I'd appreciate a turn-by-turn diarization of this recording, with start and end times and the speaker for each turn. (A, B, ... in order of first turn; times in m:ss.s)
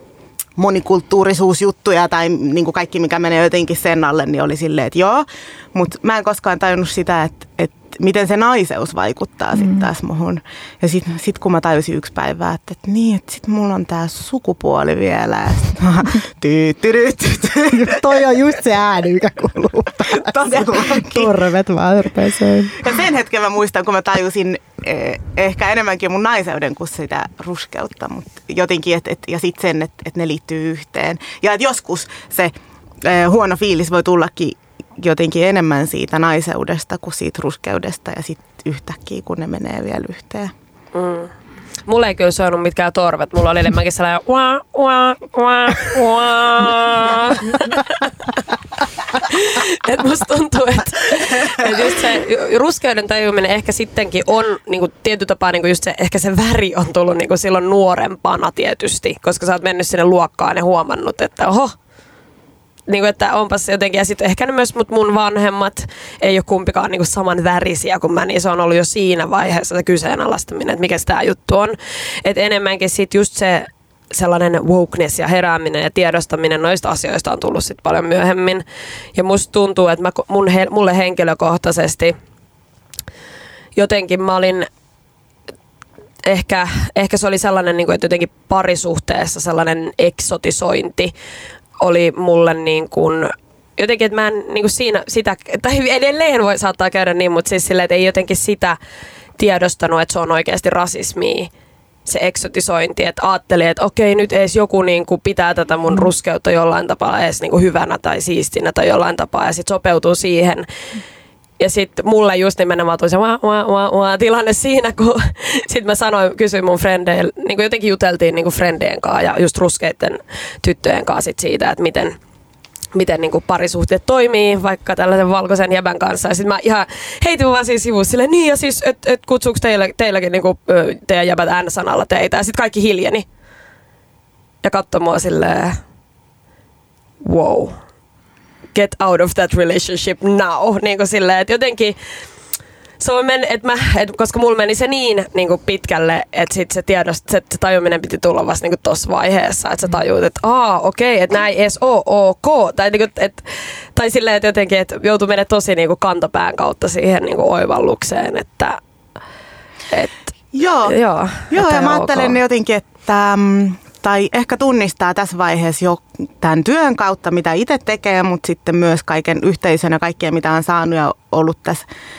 0:00.6-0:18.0 A
0:17.7-0:22.9 B
0:20.1-0:21.4 A
0:22.8-0:40.5 A
0:41.0-0:41.3 C
0:41.9-0:48.4 C
0:49.1-1:01.8 C
1:02.9-1:18.6 C
1:19.2-1:22.2 C
1:23.8-1:24.7 C
1:26.2-1:31.1 C
1:31.8-1:38.8 C
1:39.4-1:41.5 C
1:42.0-1:50.7 C
1:51.6-2:02.2 C
2:02.9-2:13.2 C
2:14.6-2:15.8 C
2:17.2-2:17.8 C
2:18.7-2:22.0 C
2:23.0-2:38.8 C
2:39.9-2:40.2 C
2:40.5-2:41.0 A
2:40.9-2:42.4 C
2:41.5-2:51.8 A